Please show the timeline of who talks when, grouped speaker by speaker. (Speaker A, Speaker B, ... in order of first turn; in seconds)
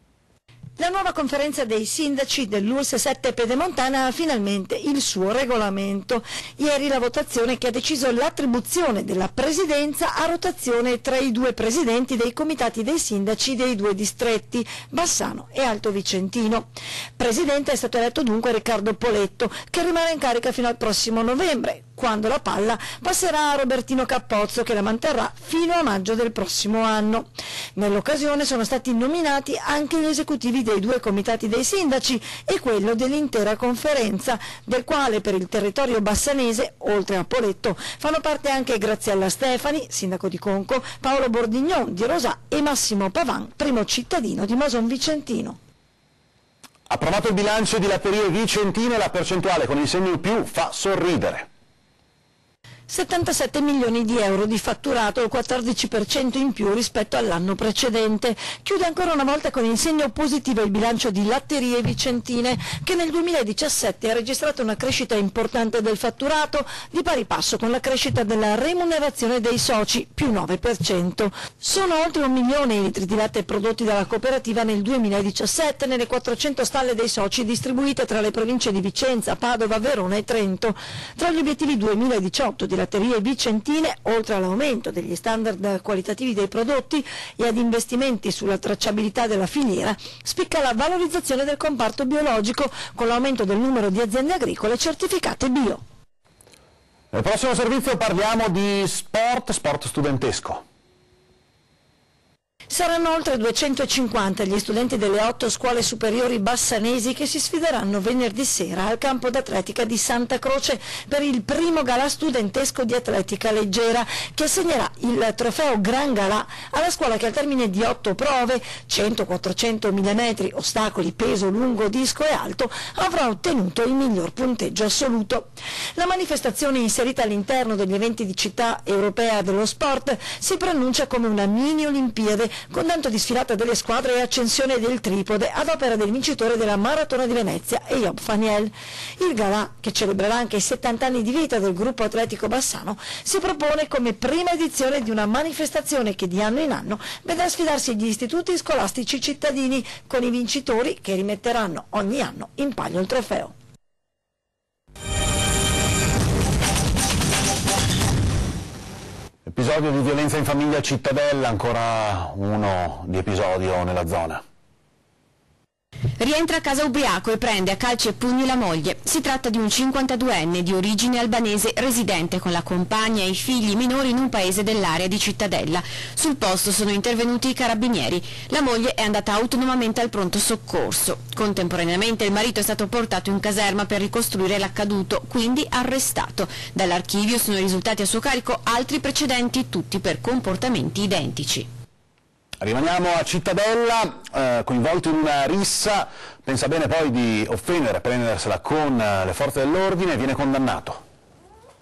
Speaker A: 0.8-45.6, 52.9-95.8, 102.7-153.5
Speaker B: 46.9-51.5, 97.1-100.6, 159.4-164.4, 192.6-201.0
Speaker C: 166.2-191.6